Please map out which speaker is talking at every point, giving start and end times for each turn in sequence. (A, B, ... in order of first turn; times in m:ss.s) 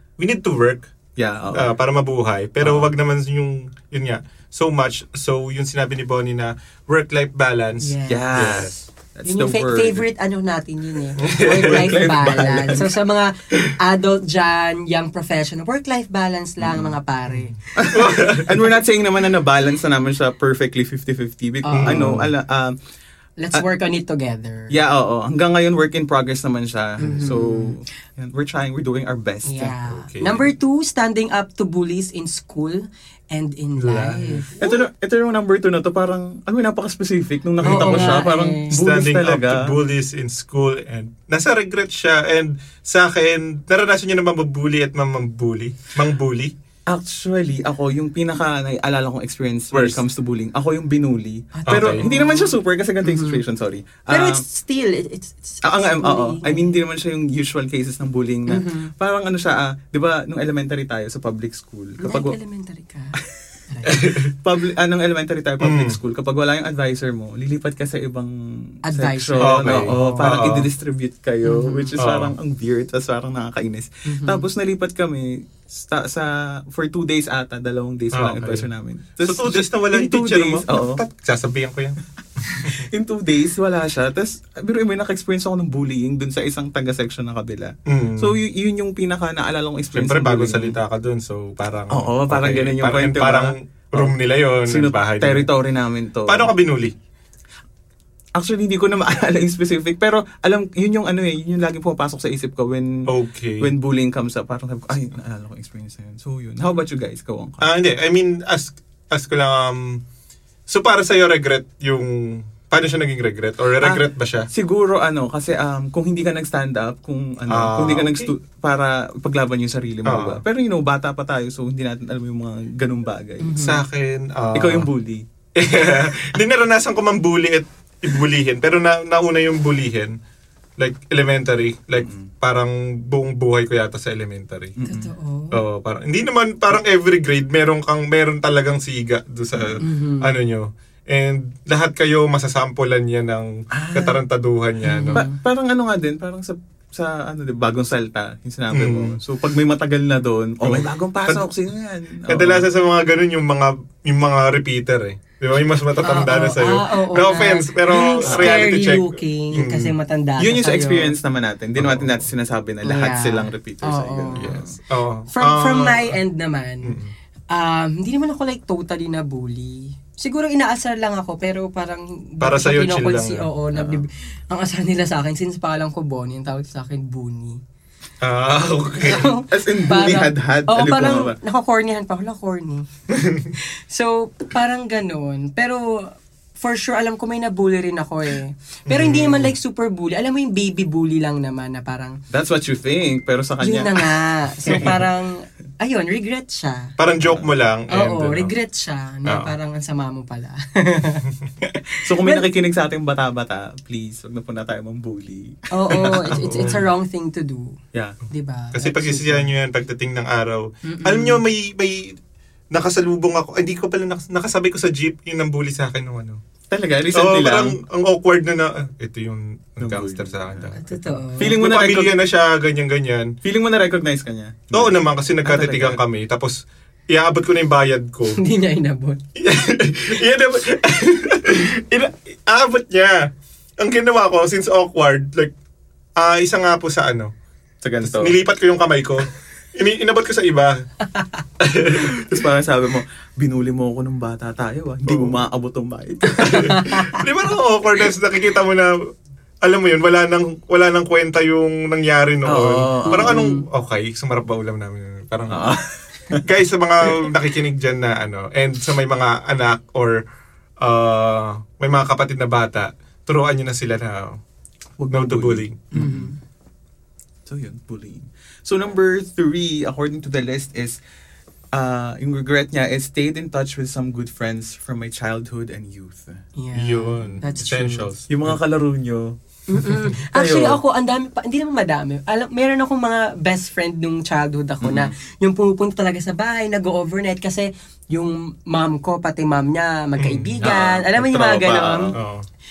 0:00.2-0:00.9 A
0:01.2-0:01.8 B
0:01.5-0:08.7 A
0:02.6-0:02.9 B
0:07.8-0:08.5 C
0:08.1-0:10.0 B
0:09.2-0:18.2 C
0:11.2-0:12.1 A
0:11.4-0:12.9 B
0:16.6-0:16.9 B
0:17.3-0:18.5 A
0:17.8-0:22.8 B
0:21.6-0:22.1 C
0:21.7-0:22.3 A
0:23.4-0:24.8 C
0:24.7-0:29.8 B
0:27.0-0:27.8 C
0:29.5-0:34.5 C
0:29.9-0:30.5 A
0:33.8-0:34.8 A
0:34.6-0:39.8 B
0:37.6-0:38.8 C
0:37.6-0:46.5 A
0:46.9-0:54.4 B
0:49.7-0:50.0 A
0:51.5-0:53.4 C
0:51.7-0:52.0 A
0:54.1-0:56.7 C
0:55.6-1:02.4 B
0:58.5-0:58.9 C
1:02.0-1:03.2 C
1:03.7-1:04.1 C
1:03.9-1:04.3 A
1:04.0-1:08.4 B
1:05.6-1:06.0 A
1:08.9-1:10.0 C
1:08.9-1:21.0 B
1:09.4-1:10.7 A
1:11.4-1:12.0 C
1:12.0-1:12.4 A
1:14.1-1:14.5 C
1:18.1-1:18.7 A
1:19.2-1:22.9 A
1:22.5-1:30.8 B
1:27.9-1:28.4 A
1:30.0-1:35.5 A
1:31.9-1:34.2 B
1:34.7-1:36.5 B
1:36.3-1:36.9 A
1:38.4-1:43.1 B
1:43.1-1:43.7 A
1:43.6-1:47.7 B
1:47.6-1:50.0 A
1:50.7-1:54.5 A
1:53.8-2:03.6 B
1:57.5-1:58.3 A
2:00.1-2:00.4 A
2:03.4-2:03.8 C
2:03.6-2:04.9 A
2:04.5-2:05.2 B
2:05.6-2:10.2 A
2:10.8-2:14.8 A
2:12.0-2:12.3 B
2:14.8-2:15.1 B
2:14.8-2:15.6 C
2:15.5-2:25.2 A
2:19.5-2:19.8 B
2:19.8-2:20.3 C
2:23.7-2:24.2 B
2:24.8-2:25.3 C
2:25.2-2:32.7 B
2:28.7-2:29.2 A
2:30.6-2:31.5 A
2:32.3-2:40.0 A
2:36.0-2:41.2 C
2:38.2-2:38.7 B
2:40.4-2:44.8 B
2:41.8-2:42.1 A
2:42.8-2:44.6 C
2:44.4-2:46.2 A
2:45.3-2:47.0 C
2:46.8-2:47.1 A
2:47.5-2:57.6 C
2:52.4-2:53.5 A
2:53.7-2:54.0 B
2:58.2-2:59.3 A
2:59.0-3:02.9 C
2:59.1-3:01.4 B
3:03.1-3:03.5 A
3:03.6-3:12.2 C
3:08.9-3:09.5 A
3:12.3-3:14.0 B
3:13.6-3:16.9 C
3:14.6-3:15.0 B
3:17.0-3:18.6 A
3:17.9-3:21.3 C
3:19.3-3:19.5 A
3:21.9-3:22.4 C
3:22.0-3:26.8 B
3:25.7-3:27.8 C
3:25.9-3:26.8 A
3:27.9-3:28.2 B
3:28.3-3:29.5 C
3:28.7-3:32.2 A
3:30.9-3:31.4 C
3:32.7-3:36.4 A
3:36.7-3:37.8 B
3:37.1-3:43.3 A
3:39.8-3:40.8 B
3:40.8-3:41.6 C
3:41.4-3:42.2 B
3:43.4-3:46.0 B
3:44.7-3:48.4 A
3:48.3-3:49.2 C
3:49.4-3:53.3 A
3:53.8-3:55.5 A
3:56.2-3:57.3 A
3:57.8-3:58.4 B
3:58.0-4:00.8 A
4:01.6-4:02.5 A
4:02.0-4:06.8 B
4:05.1-4:05.4 A
4:06.4-4:09.0 A
4:06.4-4:07.2 C
4:09.6-4:15.8 A
4:12.5-4:13.4 B
4:13.1-4:13.6 C
4:15.5-4:16.5 B
4:16.4-4:20.2 A
4:20.8-4:24.4 A
4:25.0-4:26.3 B
4:25.1-4:25.8 A
4:25.9-4:26.4 C
4:27.4-4:31.0 B
4:31.7-4:36.4 B
4:36.6-4:38.1 C
4:36.7-4:38.6 A
4:38.3-4:39.4 B
4:39.7-4:52.2 C
4:40.3-4:40.8 B
4:44.8-4:45.1 B
4:50.2-4:50.7 A
4:50.6-4:52.2 B
4:52.2-4:52.4 A